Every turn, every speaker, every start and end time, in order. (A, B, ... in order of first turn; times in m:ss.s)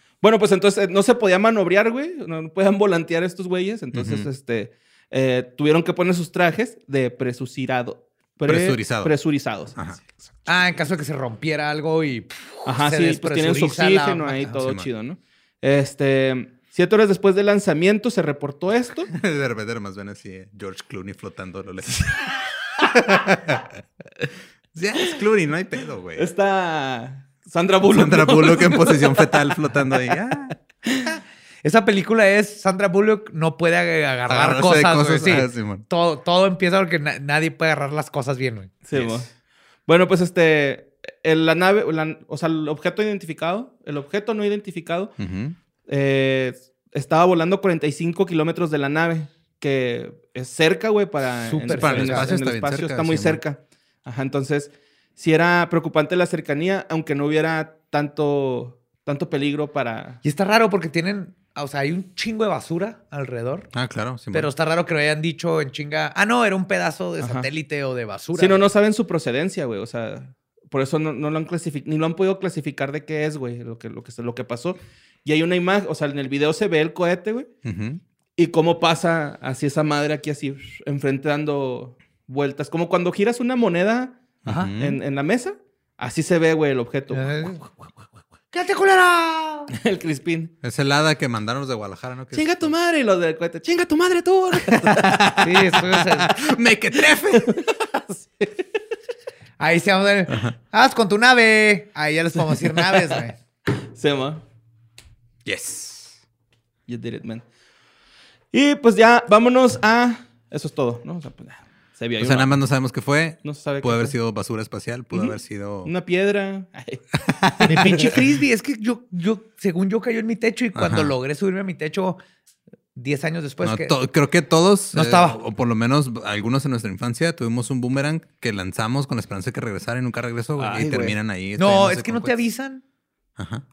0:00.2-0:09.8 A
0:03.9-0:04.3 B
0:08.5-0:09.1 B
0:09.8-0:10.0 B
0:10.5-0:14.6 C
0:12.6-0:19.1 A
0:19.1-0:22.3 B
0:22.8-0:23.7 B
0:24.7-0:26.3 B
0:26.2-0:29.4 A
0:27.9-0:30.6 B
0:31.1-0:38.7 C
0:34.3-0:35.8 B
0:38.8-0:39.3 A
0:38.9-0:39.2 B
0:39.9-0:45.2 A
0:45.2-0:45.6 B
0:45.9-1:00.2 A
0:51.4-0:52.3 C
0:51.7-0:53.4 B
1:00.2-1:03.7 C
1:03.7-1:04.5 B
1:04.3-1:08.6 C
1:07.2-1:07.5 A
1:08.4-1:17.5 A
1:17.6-1:18.0 B
1:18.4-1:24.2 A
1:24.4-1:25.0 B
1:24.5-1:24.7 C
1:24.8-1:27.5 A
1:27.1-1:27.8 C
1:28.5-1:29.7 C
1:29.8-1:30.5 A
1:30.6-1:32.7 B
1:32.3-1:35.3 A
1:34.9-1:37.6 B
1:35.4-1:36.4 C
1:37.4-1:38.6 A
1:39.6-1:43.4 C
1:40.3-1:40.5 B
1:43.9-1:44.4 A
1:45.4-1:46.2 B
1:46.9-1:47.4 A
1:48.5-1:52.5 A
1:52.2-1:55.9 B
1:53.4-1:54.2 A
1:55.8-1:58.2 A
1:57.4-1:58.0 B
1:57.7-2:02.2 C
2:00.8-2:01.1 B
2:03.0-2:03.9 C
2:03.6-2:12.4 B
2:04.9-2:05.4 C
2:10.6-2:11.2 A
2:11.6-2:12.8 C
2:13.4-2:13.6 B